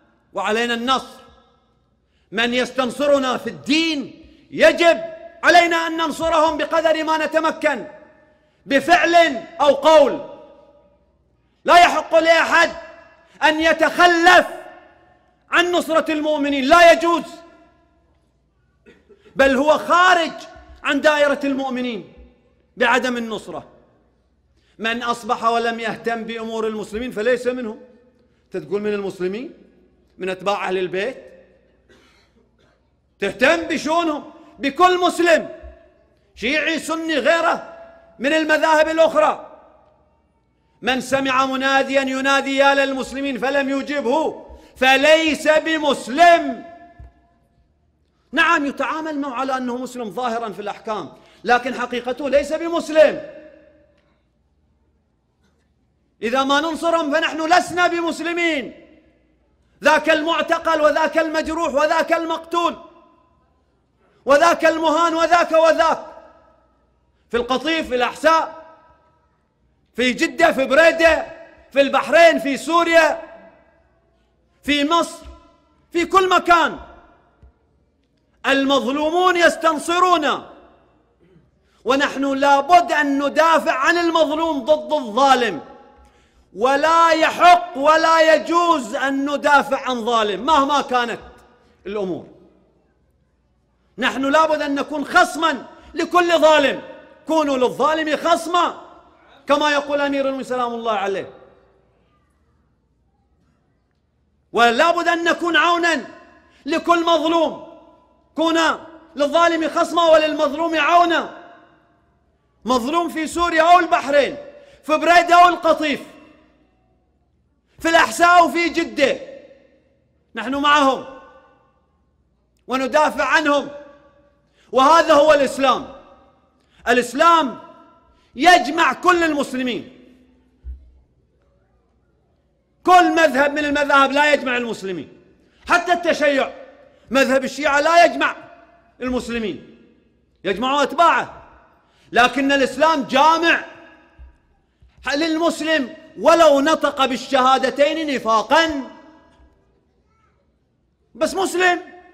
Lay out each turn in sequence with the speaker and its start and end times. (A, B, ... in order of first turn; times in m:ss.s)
0:00.3-0:01.2 A
0:02.3-0:07.9 A
0:08.7-0:10.3 A
0:11.6-0:12.8 A
0:13.4-0:14.6 A
0:15.5-0:17.4 A
0:19.4-0:22.1 A
0:22.8-0:23.7 A
0:24.8-0:27.8 A
0:28.5-0:29.5 A
0:30.2-0:31.3 A
0:33.2-0:35.5 A
0:36.4-0:39.5 A
0:40.8-0:46.7 A
0:48.3-0:53.3 A
0:56.2-0:58.8 A
0:59.8-1:02.8 A
1:04.2-1:06.1 A
1:07.3-1:08.6 A
1:09.9-1:13.2 A
1:14.6-1:15.3 A
1:15.9-1:16.8 A
1:18.4-1:20.5 A
1:21.8-1:25.6 A
1:26.5-1:32.3 A
1:34.0-1:38.8 A
1:39.5-1:41.3 A
1:44.5-1:46.1 A
1:46.6-1:47.7 A
1:48.4-1:51.4 A
1:52.6-1:56.1 A
1:57.8-1:59.4 A
2:00.3-2:01.1 A
2:02.7-2:03.7 A
2:04.7-2:05.9 A
2:06.9-2:07.6 A
2:08.4-2:09.9 A
2:12.8-2:15.1 A
2:15.7-2:16.6 A
2:17.1-2:18.4 A
2:19.0-2:19.7 A
2:20.4-2:21.3 A
2:22.1-2:23.7 A
2:25.0-2:28.9 A
2:31.1-2:31.9 A